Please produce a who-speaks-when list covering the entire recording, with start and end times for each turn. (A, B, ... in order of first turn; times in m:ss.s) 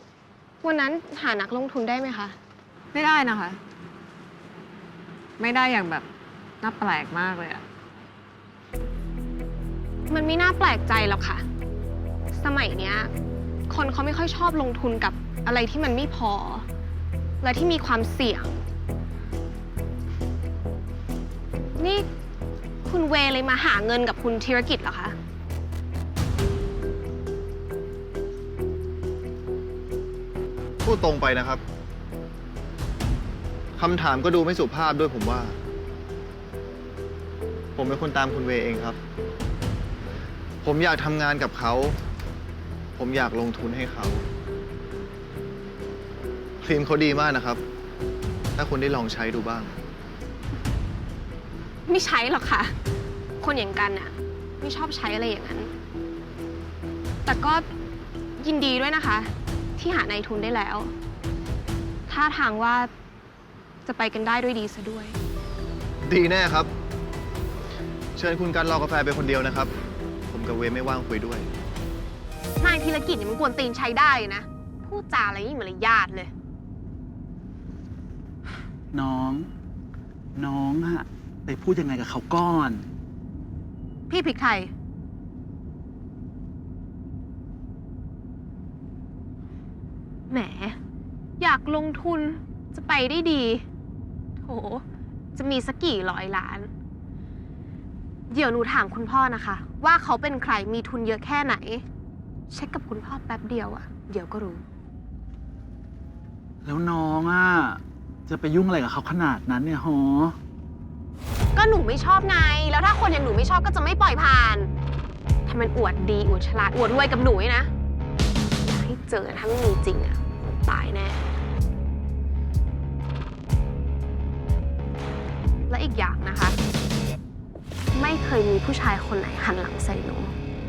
0:00.6-0:02.3 A
0:02.9-0:03.6 B
0:05.4-0:06.0 B
0:06.6-0:07.6 B
0:10.1-0:11.4 A
0:12.3-0:13.1 A
0:13.7-0:16.6 A
0:17.4-0:18.6 A
0:21.8-0:22.1 A
0:22.8-0:25.1 A
0:30.8-0:31.6 C
0:33.8-0:35.6 C
0:37.8-0:39.0 C
0:40.6-0:42.0 C
0:43.0-0:44.2 C
0:46.6-0:47.6 C
0:48.6-0:49.8 C
0:51.9-0:52.7 A
0:53.4-0:55.7 A
0:57.2-0:57.6 A
0:58.4-1:00.9 A
1:02.1-1:02.9 A
1:03.8-1:05.2 A
1:06.0-1:06.7 C
1:08.2-1:09.7 C
1:10.3-1:11.5 C
1:12.6-1:16.3 A
1:18.9-1:19.5 D
1:20.3-1:22.8 D
1:24.1-1:24.7 A
1:30.3-1:30.8 A
1:31.4-1:33.6 A
1:34.4-1:36.7 A
1:38.3-1:41.8 A
1:42.5-1:44.6 A
1:46.6-1:50.4 D
1:51.5-1:54.7 A
1:55.4-1:57.7 A
1:58.6-2:01.2 A
2:05.7-2:06.6 A
2:07.9-2:10.4 A